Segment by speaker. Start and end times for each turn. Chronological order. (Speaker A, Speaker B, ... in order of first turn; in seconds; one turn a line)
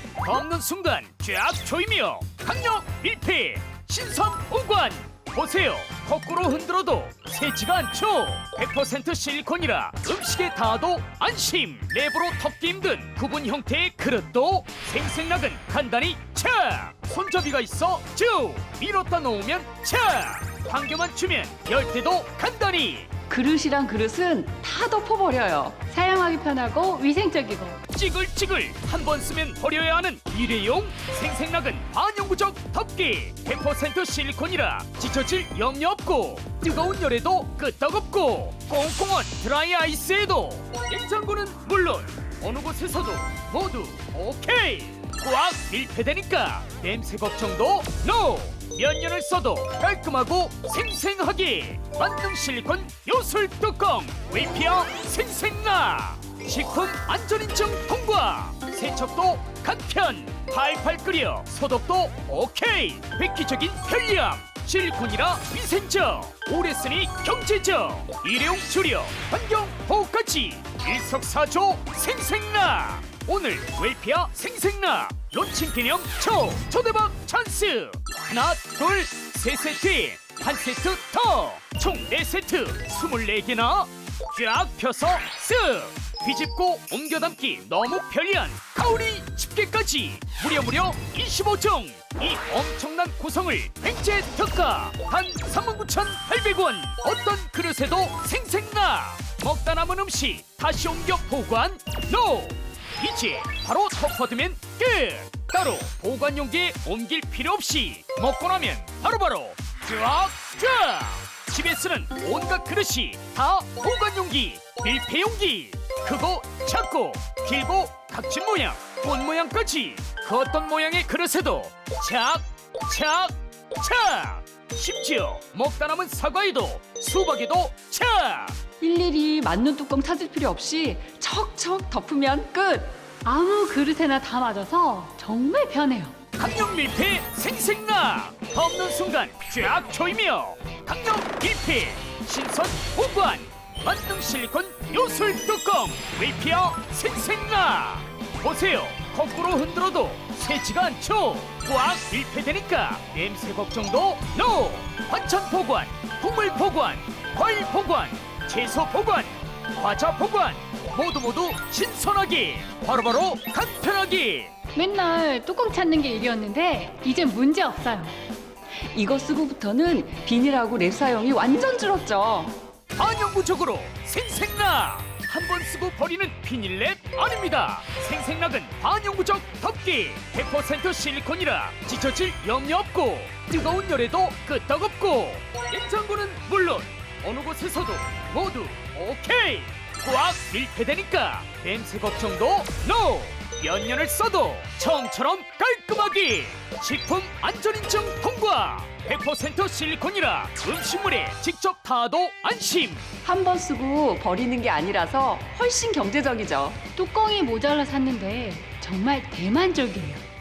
Speaker A: 0.2-23.1
Speaker B: 23.3-25.8
Speaker C: 25.9-27.8
Speaker A: 27.9-128.6
Speaker B: 128.8-133.0
Speaker C: 133.2-136.2
Speaker A: 136.4-164.5
Speaker C: 164.8-168.2
Speaker B: 168.9-172.6
Speaker A: 173.0-203.0
Speaker B: 203.2-206.8
Speaker C: 207.0-210.2